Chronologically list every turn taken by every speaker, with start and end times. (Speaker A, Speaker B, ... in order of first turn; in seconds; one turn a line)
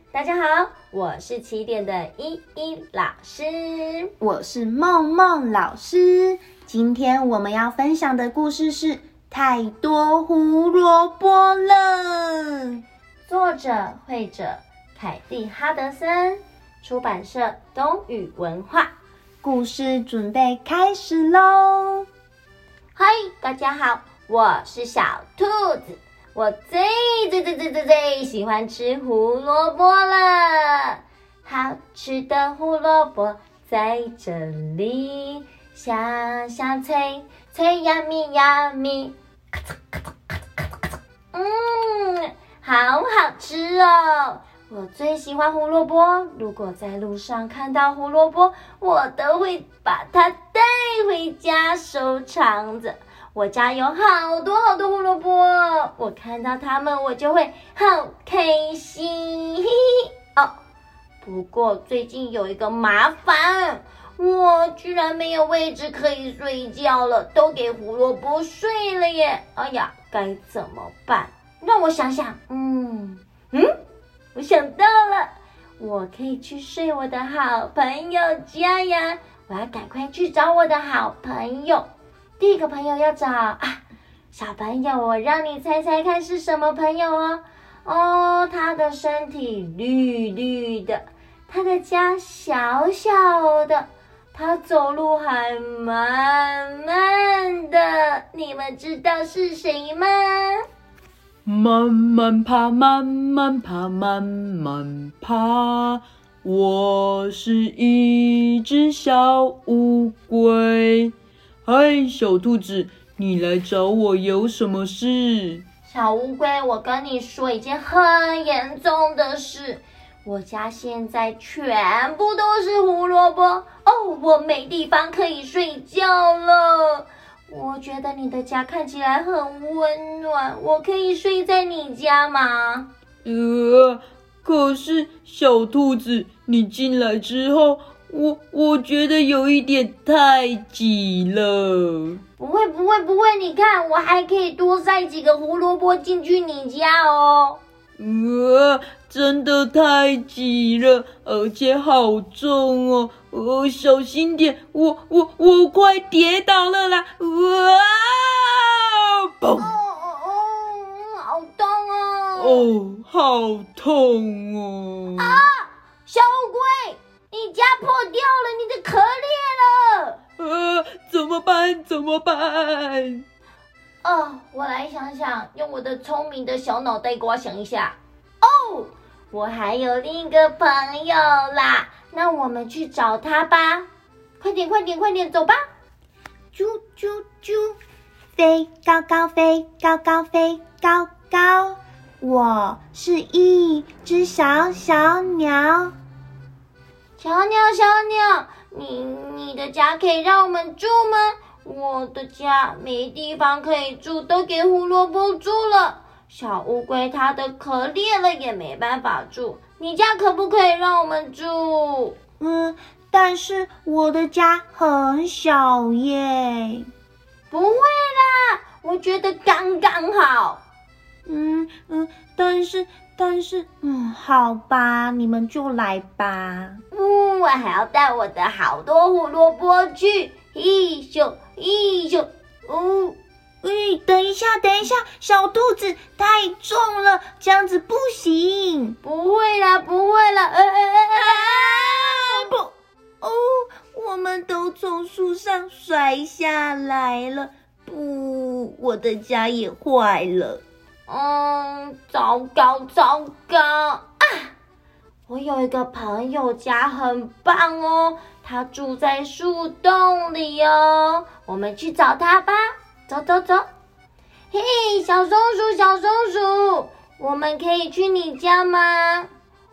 Speaker A: 0.1-4.1
Speaker B: 4.2-12.8
Speaker A: 13.3-18.9
Speaker B: 19.4-22.1
Speaker A: 22.9-39.1
Speaker A: 41.3-59.8
Speaker A: 61.2-73.7
Speaker A: 74.3-81.9
Speaker A: 82.4-83.8
Speaker A: 84.3-100.6
Speaker C: 101.5-111.1
Speaker C: 111.7-115.6
Speaker A: 115.9-132.9
Speaker C: 133.2-142.2
Speaker A: 142.4-147.6
Speaker C: 148.0-159.7
Speaker A: 159.6-162.7
Speaker C: 162.4-165.4
Speaker A: 165.2-170.2
Speaker C: 170.4-173.2
Speaker A: 174.0-183.9
Speaker A: 184.4-185.6
Speaker B: 186.5-187.8
Speaker B: 188.4-195.9
Speaker A: 197.2-212.2
Speaker B: 212.4-216.9
Speaker A: 217.5-220.6
Speaker B: 221.3-226.8
Speaker A: 226.9-233.2
Speaker B: 233.6-239.0
Speaker A: 239.0-242.5
Speaker B: 241.3-250.6
Speaker A: 251.1-254.5
Speaker A: 255.3-263.7
Speaker A: 264.5-269.3